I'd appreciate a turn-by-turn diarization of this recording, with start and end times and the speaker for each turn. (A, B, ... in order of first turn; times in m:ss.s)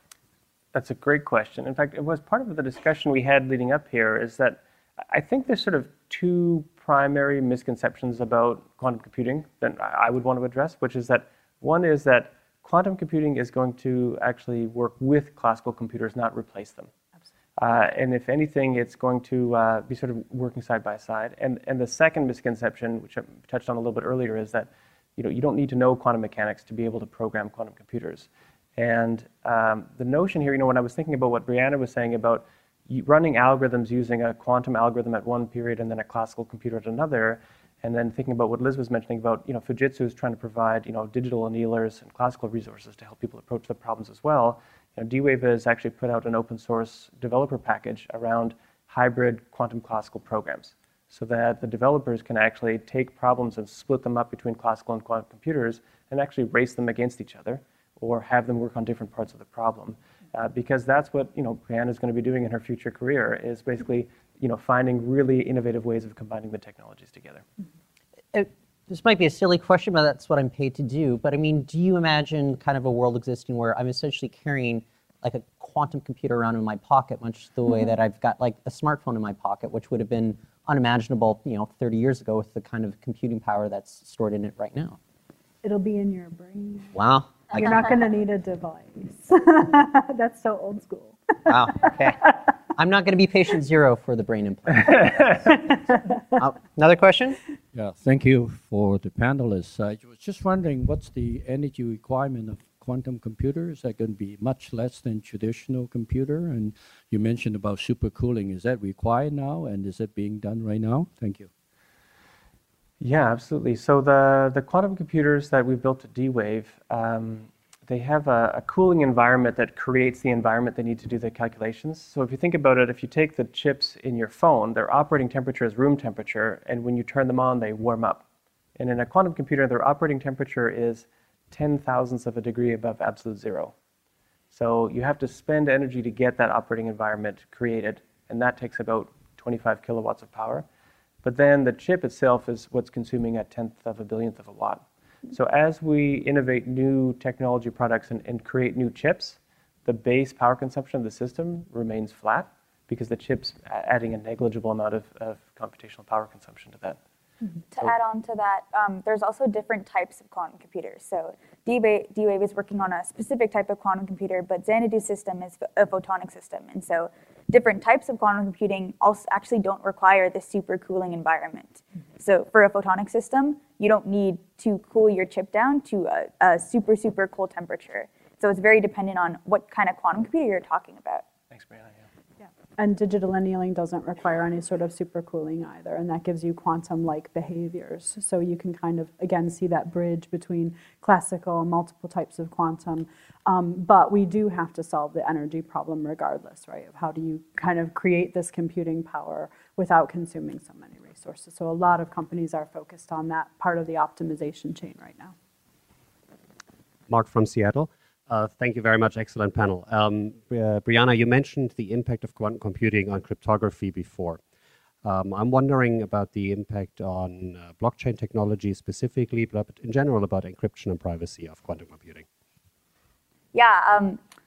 0:00.7-0:16.9 A
0:17.6-1:07.4 A
1:08.3-1:25.0 B
1:25.6-1:26.9 C
1:26.9-1:27.8 B
1:27.5-1:31.5 C
1:31.4-1:35.5 B
1:36.3-1:37.4 B
1:37.7-1:51.5 D
1:53.0-2:08.2 A
2:08.8-2:13.7 A
2:14.5-2:20.6 A
2:21.2-2:37.0 A
2:37.7-3:01.2 E
3:01.5-3:02.0 A
3:02.4-3:25.3 C
3:27.1-3:34.4 F
3:35.0-3:42.3 F
3:43.5-3:44.2 E